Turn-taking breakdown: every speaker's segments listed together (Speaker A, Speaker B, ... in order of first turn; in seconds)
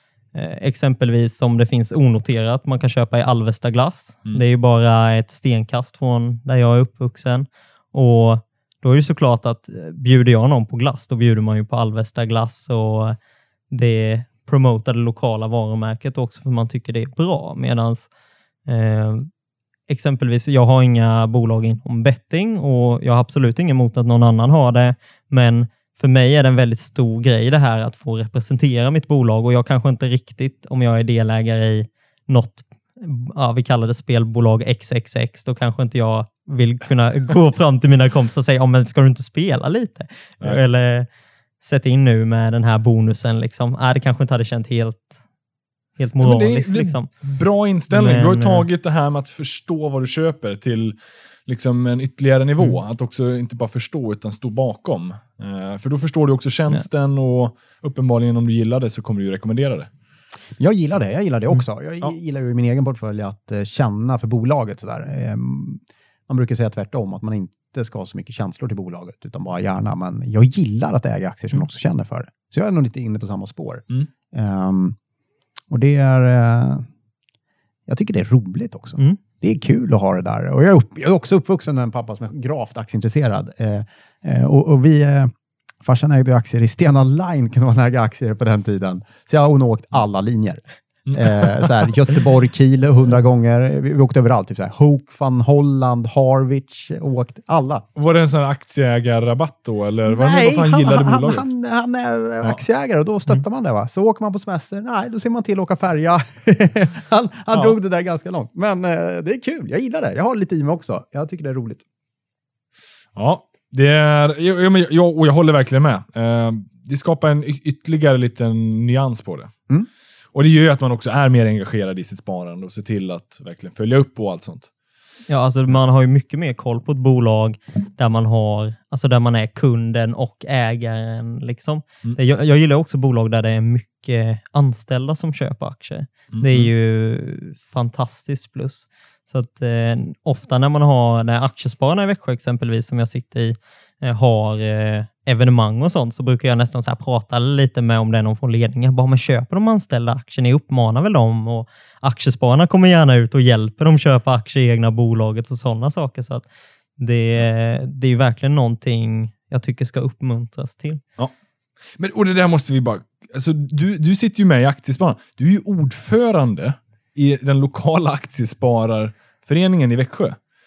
Speaker A: 0.3-13.2, 13.7-18.1, 18.7-19.3, 19.9-41.1, 41.6-45.1, 46.0-47.1, 47.9-48.7, 125.3-156.4, 157.0-161.0
Speaker B: 46.2-59.9, 91.1-91.7, 98.0-101.5, 107.5-107.8, 113.2-119.5, 120.3-124.7, 136.3-136.7, 162.0-170.4
Speaker C: 60.6-75.0, 75.7-76.9, 77.9-97.8, 100.0-111.8